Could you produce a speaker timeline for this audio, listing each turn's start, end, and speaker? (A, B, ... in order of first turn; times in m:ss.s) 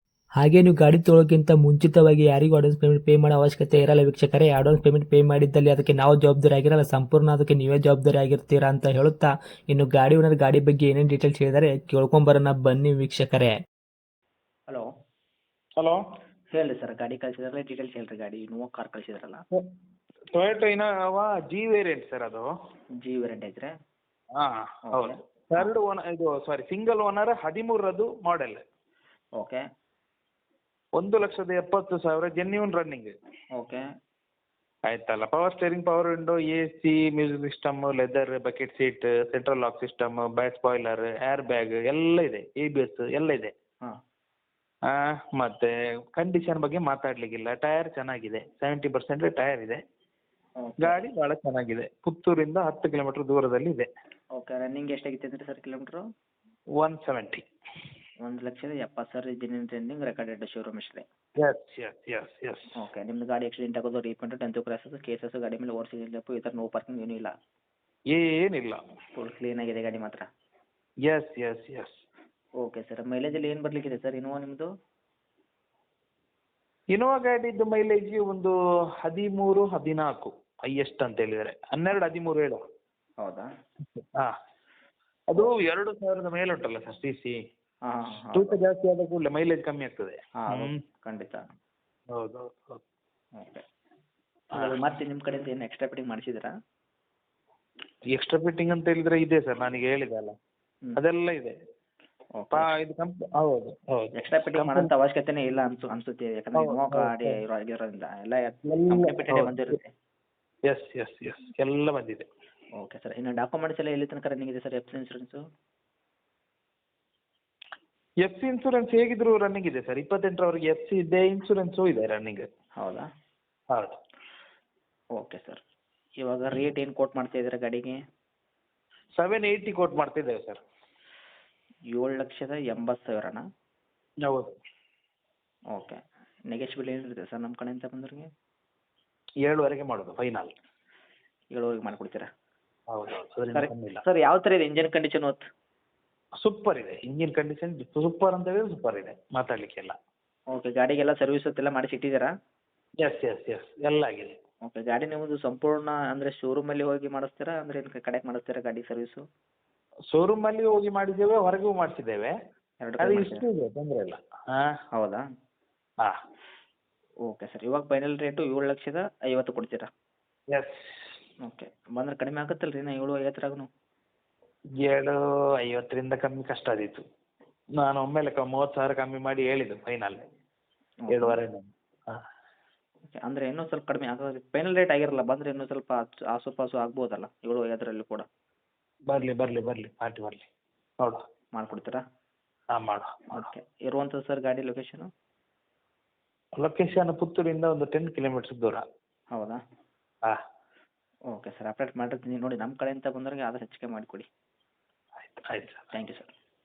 0:00.4-0:13.5 A
0:16.5-0:19.4 B
0:20.3-0:22.5 C
0:23.0-0:23.7 B
0:24.4-0:28.6 C
0:24.9-0:25.7 B
0:31.0-0:33.1 C
0:33.6-0:33.8 B
0:34.9-0:43.5 C
0:44.9-0:49.8 C
0:50.6-0:51.0 B
0:50.8-0:53.9 C
0:54.3-0:56.0 B
0:56.8-0:57.4 C
0:58.2-1:01.0 B
1:01.4-1:02.7 C
1:02.8-1:07.3 B
1:08.1-1:08.8 C
1:09.1-1:10.2 B
1:11.0-1:12.0 C
1:12.6-1:14.7 B
1:16.9-1:22.6 C
1:23.2-1:23.5 B
1:24.0-1:24.3 C
1:25.3-1:27.4 C
1:27.9-1:28.6 B
1:28.3-1:30.7 C
1:30.4-1:31.4 B
1:32.1-1:32.8 C
1:33.4-1:33.6 B
1:34.5-1:36.5 B
1:38.1-1:40.3 C
1:41.0-1:41.6 C
1:42.3-1:42.7 B
1:42.5-1:44.9 C
1:44.2-1:49.9 B
1:46.6-1:47.4 C
1:48.6-1:49.6 C
1:50.7-1:52.3 C
1:52.8-1:55.4 B
1:58.2-2:02.4 C
2:02.8-2:03.0 B
2:05.2-2:05.6 B
2:06.2-2:08.0 B
2:09.2-2:10.6 C
2:11.9-2:13.4 B
2:14.2-2:14.5 C
2:16.5-2:18.3 B
2:19.4-2:20.5 C
2:21.5-2:22.2 B
2:22.9-2:24.0 C
2:23.6-2:25.4 B
2:26.4-2:29.9 C
2:30.5-2:32.3 B
2:33.0-2:34.3 C
2:34.6-2:39.2 B
2:40.1-2:42.3 C
2:42.8-2:43.4 B
2:43.0-2:44.7 C
2:45.0-2:45.2 B
2:47.3-2:49.9 B
2:50.5-2:51.2 C
2:51.4-2:53.7 B
2:54.8-2:57.0 C
2:57.8-3:00.2 C
3:01.1-3:01.4 B
3:01.1-3:02.2 C
3:03.2-3:08.2 B
3:09.1-3:10.5 C
3:11.5-3:12.0 B
3:12.7-3:13.5 C
3:13.3-3:15.1 B
3:16.6-3:18.8 C
3:19.3-3:19.6 B
3:21.3-3:24.2 B
3:25.2-3:25.9 C
3:25.9-3:26.3 B